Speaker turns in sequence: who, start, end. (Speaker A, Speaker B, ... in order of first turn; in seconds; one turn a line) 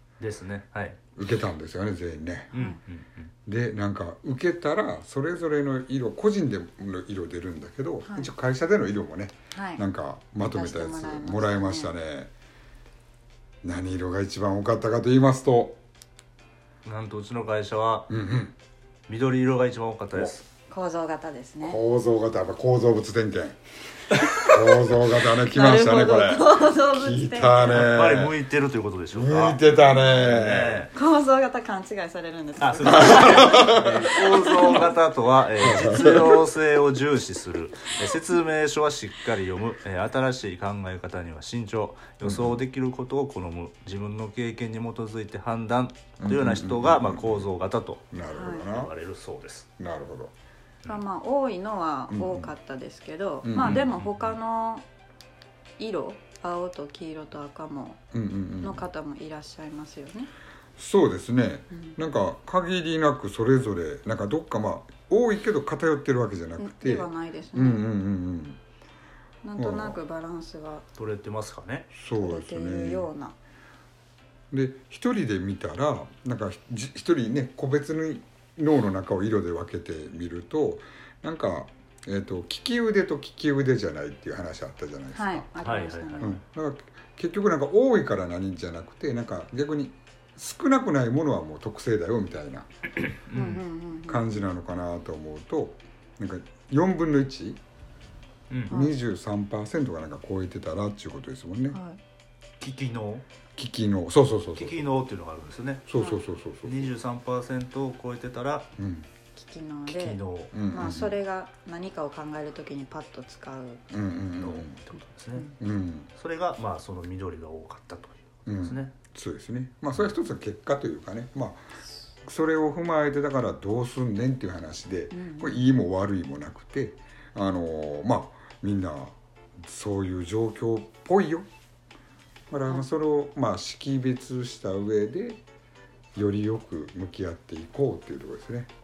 Speaker A: 0.2-1.0
Speaker B: 1.2-2.5
Speaker C: 2.5-2.8
Speaker A: 2.5-3.3
Speaker B: 3.5-12.3
Speaker C: 8.0-8.3
Speaker C: 9.5-9.8
Speaker C: 10.4-11.9
Speaker B: 13.6-15.8
Speaker A: 16.9-18.1
Speaker B: 18.1-18.6
Speaker A: 19.1-20.4
Speaker C: 20.7-21.8
Speaker B: 21.6-23.6
Speaker C: 24.2-27.9
Speaker B: 24.4-28.4
Speaker A: 27.6-30.9
Speaker B: 29.1-30.9
Speaker C: 30.9-34.9
Speaker A: 32.6-49.7
Speaker B: 32.9-34.8
Speaker B: 35.6-36.4
Speaker B: 42.2-42.6
Speaker B: 46.2-47.5
Speaker B: 48.1-48.9
Speaker C: 48.3-48.7
Speaker B: 49.8-50.3
Speaker C: 50.9-54.9
Speaker B: 52.1-52.5
Speaker B: 53.4-53.9
Speaker A: 53.6-54.4
Speaker C: 55.8-58.0
Speaker B: 58.1-58.8
Speaker C: 58.6-60.3
Speaker B: 60.8-68.6
Speaker C: 61.7-62.0
Speaker C: 66.6-67.8
Speaker C: 69.4-70.8
Speaker B: 69.6-70.0
Speaker A: 71.0-71.9
Speaker B: 71.9-73.1
Speaker C: 72.1-73.3
Speaker B: 74.5-85.5
Speaker C: 85.1-86.4
Speaker A: 85.6-86.3
Speaker B: 86.2-92.7
Speaker A: 93.3-93.6
Speaker C: 93.3-94.2
Speaker B: 94.1-97.6
Speaker A: 98.5-98.8
Speaker B: 98.7-101.8
Speaker C: 98.7-99.0
Speaker C: 101.7-102.0
Speaker A: 102.6-103.2
Speaker B: 103.6-104.8
Speaker A: 104.5-105.8
Speaker B: 105.9-106.9
Speaker A: 106.6-108.7
Speaker B: 108.8-109.1
Speaker C: 109.4-113.8
Speaker A: 109.9-110.5
Speaker B: 110.5-111.2
Speaker B: 113.9-114.8
Speaker A: 114.4-115.5
Speaker B: 115.6-116.1
Speaker A: 116.2-118.9
Speaker B: 118.5-121.7
Speaker B: 122.2-131.5
Speaker C: 125.1-125.6
Speaker B: 132.5-135.4
Speaker B: 136.1-138.7